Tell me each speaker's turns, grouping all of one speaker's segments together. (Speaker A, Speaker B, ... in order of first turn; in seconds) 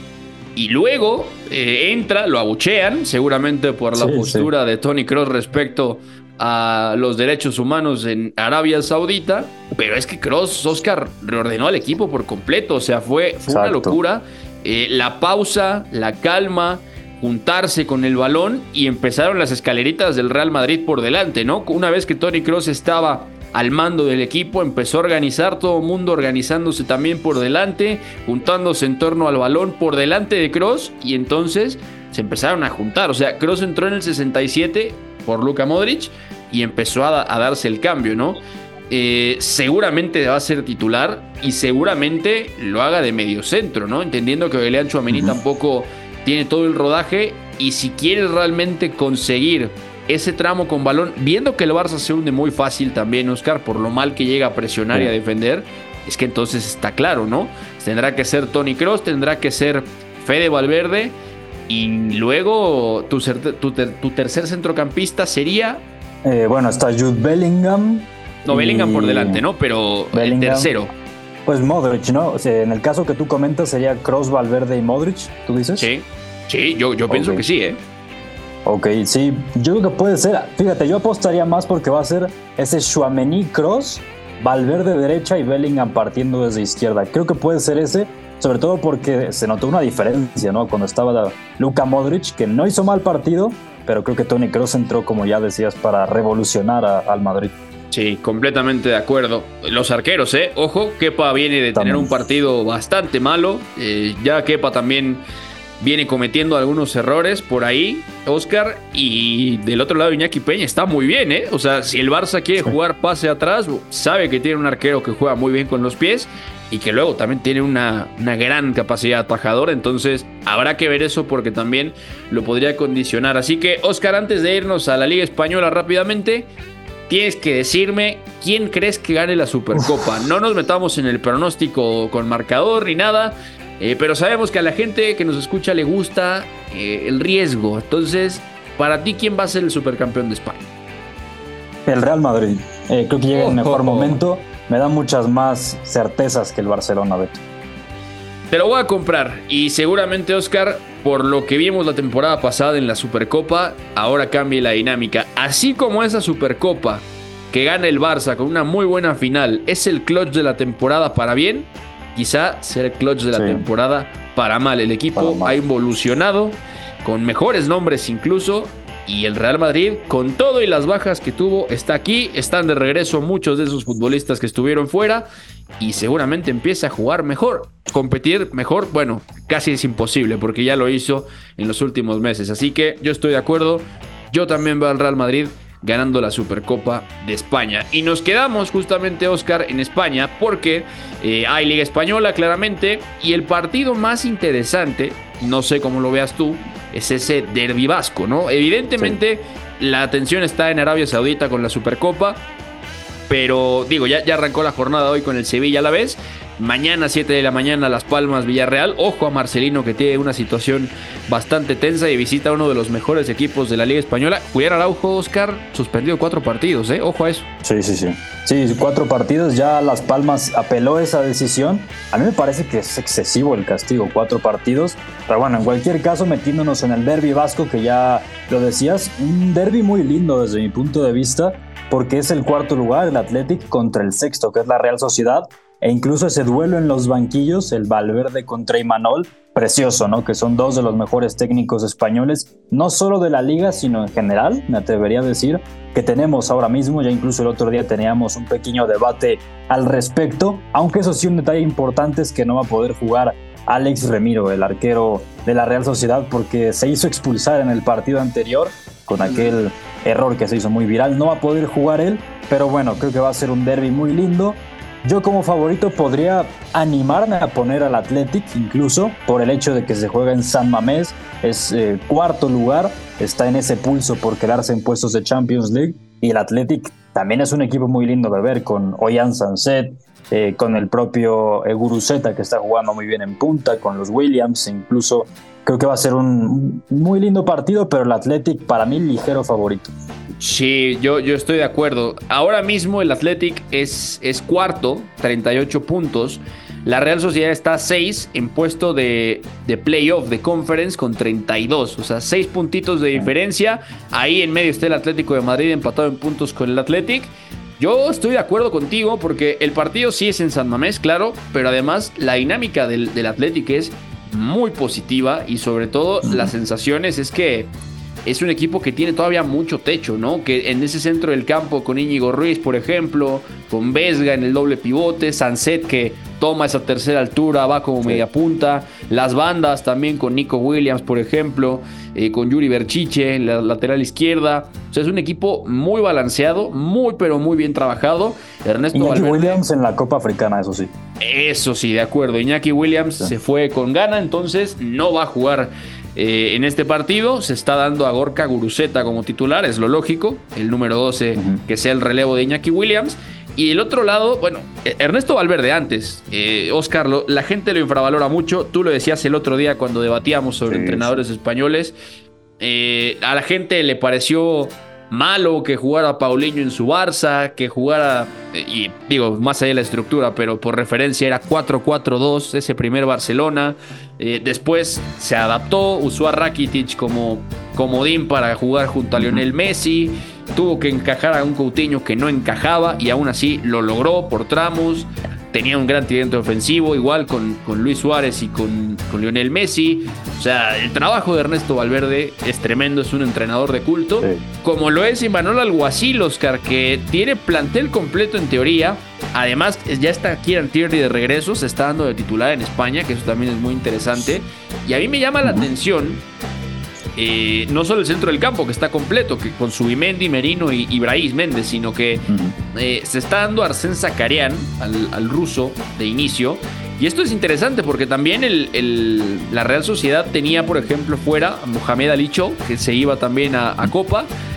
Speaker A: 0.6-61.2, 61.7-65.8, 68.4-70.9, 75.8-77.8, 97.9-105.2, 105.8-126.5, 127.1-140.6, 143.3-144.2, 148.5-175.3, 175.8-202.4, 203.3-217.5, 290.4-317.7, 318.2-339.6, 341.2-361.9, 362.6-406.2, 407.1-424.3
Speaker B: 4.0-4.5, 13.5-14.0, 45.1-45.3, 66.2-69.4, 70.1-70.7, 71.4-75.9, 77.1-77.4, 78.6-97.5, 101.7-102.1, 141.8-147.4, 163.3-163.6, 165.1-165.6, 217.6-289.9, 316.2-316.5, 338.9-340.9, 351.3-351.6, 360.7-361.2, 379.1-379.5, 405.4-405.7, 412.3-412.5